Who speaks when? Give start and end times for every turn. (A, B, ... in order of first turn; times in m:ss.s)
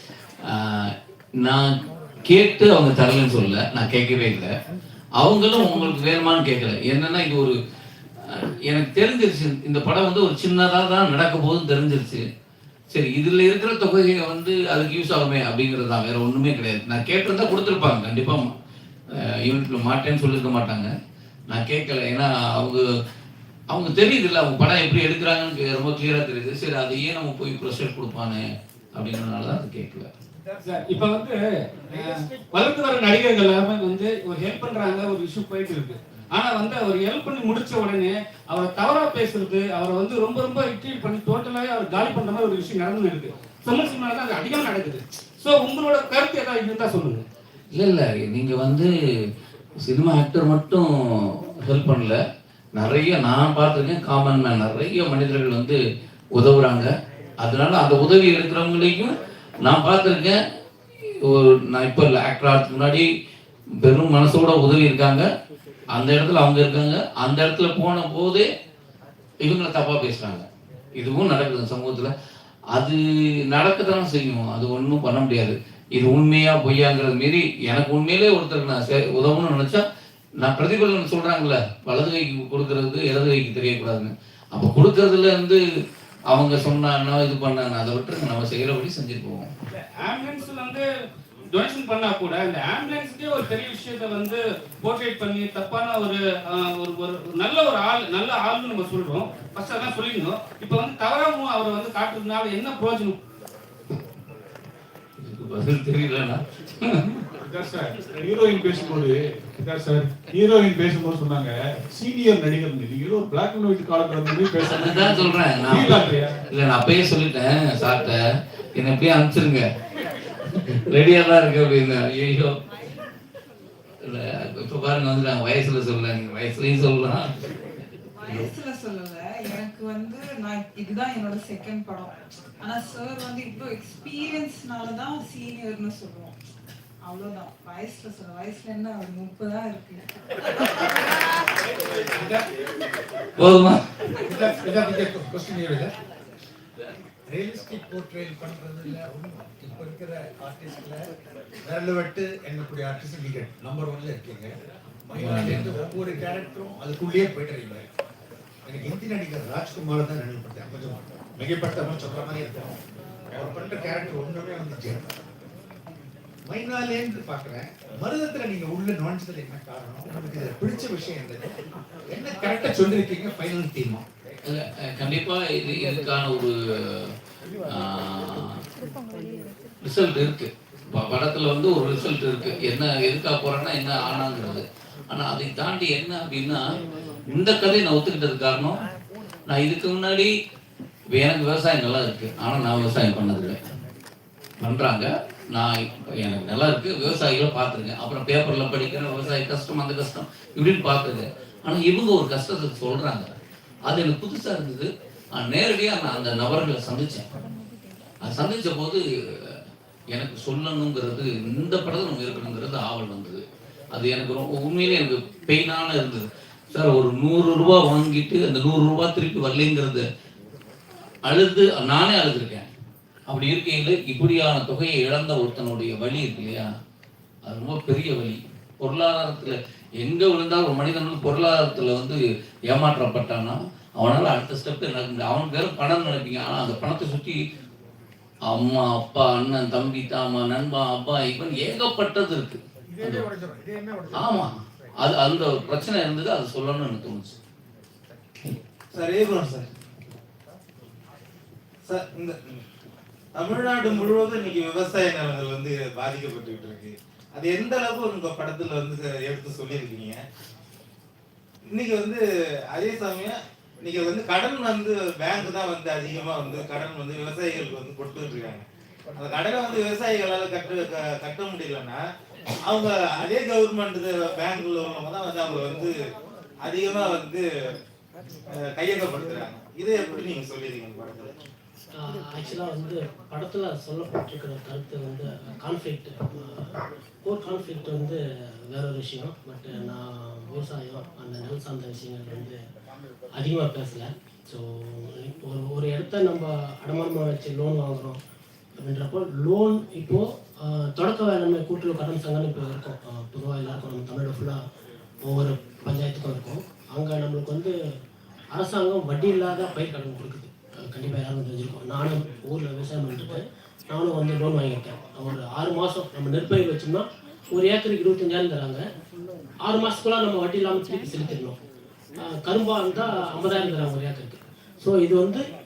0:00.4-0:04.5 A
0:05.2-0:07.6 A
0:08.2-0:12.2 A
0:12.9-0:18.5 A
0:19.2-0:20.9 A
0:21.5-0:22.8 A
0:23.7-0:30.1 A
0:30.6-0:31.4 B
0:31.9-0:47.2 B
0:47.7-0:48.9 A
0:49.8-0:52.2 A
0:52.8-0:55.8 A
0:56.4-0:56.9 A
0:57.4-0:59.1 A
0:59.6-1:00.4 A
1:01.2-1:03.1 A
1:03.8-1:05.2 A
1:05.9-1:08.4 A
1:09.4-1:10.4 A
1:11.0-1:12.1 A
1:13.5-1:19.8 A
1:20.4-1:25.6 A
1:26.3-1:29.5 A
1:29.7-1:30.8 B
1:31.5-1:43.2 B
1:45.2-1:47.2 A
1:47.4-1:56.4 C
1:54.6-1:58.2 A
1:58.8-1:59.6 A
2:00.7-2:02.6 A
2:04.0-2:08.5 A
2:08.2-2:16.3 D
2:17.0-2:20.0 D
2:23.4-2:23.8 A
2:24.3-2:25.9 E
2:27.3-2:31.0 E
2:31.6-2:34.5 E
2:35.1-2:37.8 E
2:35.2-2:35.7 A
2:38.6-2:42.8 E
2:43.3-2:45.1 E
2:46.5-2:51.5 E
2:52.1-2:54.0 E
2:54.4-2:57.1 A
2:57.7-2:58.6 A
2:59.8-3:06.6 A
3:07.3-3:08.7 A
3:09.5-3:10.3 A
3:11.1-3:13.6 A
3:14.6-3:23.3 A
3:23.8-3:27.2 A
3:28.2-3:29.5 A
3:30.1-3:40.0 A
3:41.2-3:42.7 A
3:43.3-3:46.7 A
3:47.4-3:52.2 A
3:52.7-3:57.4 A
3:58.5-4:03.3 A
4:04.1-4:07.4 A
4:08.9-4:09.7 F
4:11.9-4:12.4 F
4:13.4-4:20.2 F
4:21.7-4:22.2 F
4:22.7-4:28.6 F
4:29.2-4:32.0 F
4:32.7-4:35.9 F
4:36.6-4:37.4 F
4:38.6-4:41.4 F
4:42.0-4:52.6 G
4:53.4-4:58.2 G
4:58.8-5:04.6 G
5:05.2-5:07.8 G
5:08.5-5:18.8 G
5:19.6-5:21.6 G
5:22.2-5:25.5 G